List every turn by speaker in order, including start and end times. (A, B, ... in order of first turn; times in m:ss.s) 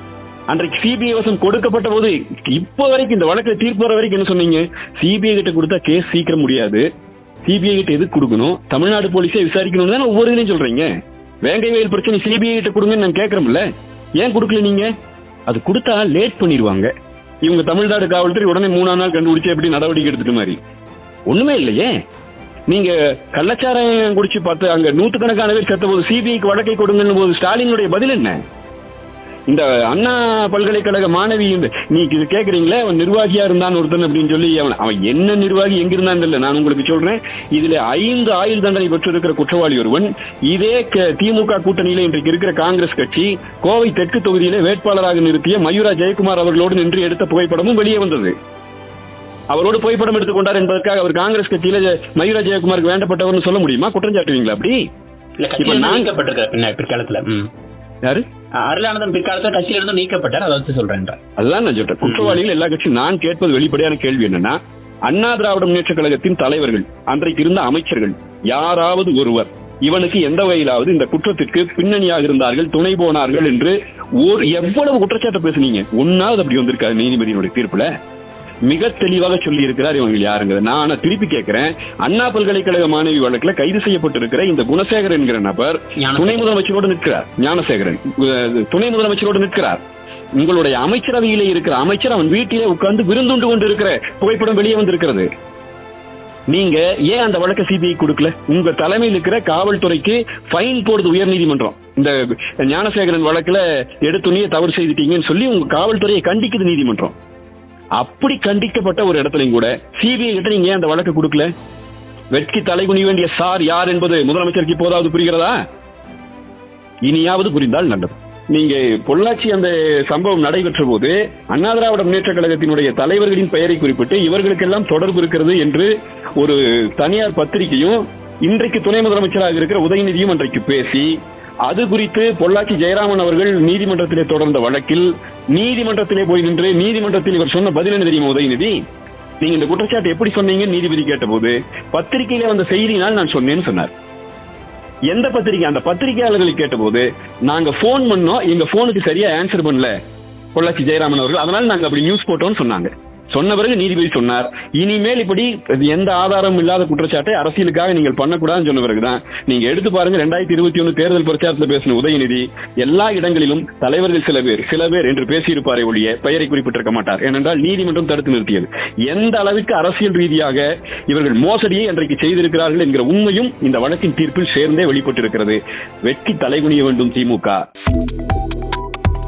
0:00.5-0:06.8 A
0:07.4-0:10.9 A
0:11.4-0:13.6 A
0:14.2-0:14.9 A
0:15.5-0:16.9 A
0:17.4-0:20.6 A
0:21.3-0:21.9 A
0:22.7-0:28.4 A
0:29.5-0:48.3 A
0:49.5-0:54.8 A
0:55.4-0:57.5 B
0:55.6-0:56.1 A
0:58.6-1:01.2 B
1:01.4-1:17.9 A
1:02.0-1:02.4 B
1:18.7-1:29.8 A
1:26.0-1:26.5 B
1:30.4-1:35.3 A
1:36.5-1:47.2 A
1:48.0-1:51.5 A
1:52.3-1:55.6 A
1:57.0-2:11.1 A
2:11.7-2:18.7 A
2:19.4-2:23.9 A
2:25.1-2:29.9 A
2:30.5-2:57.6 A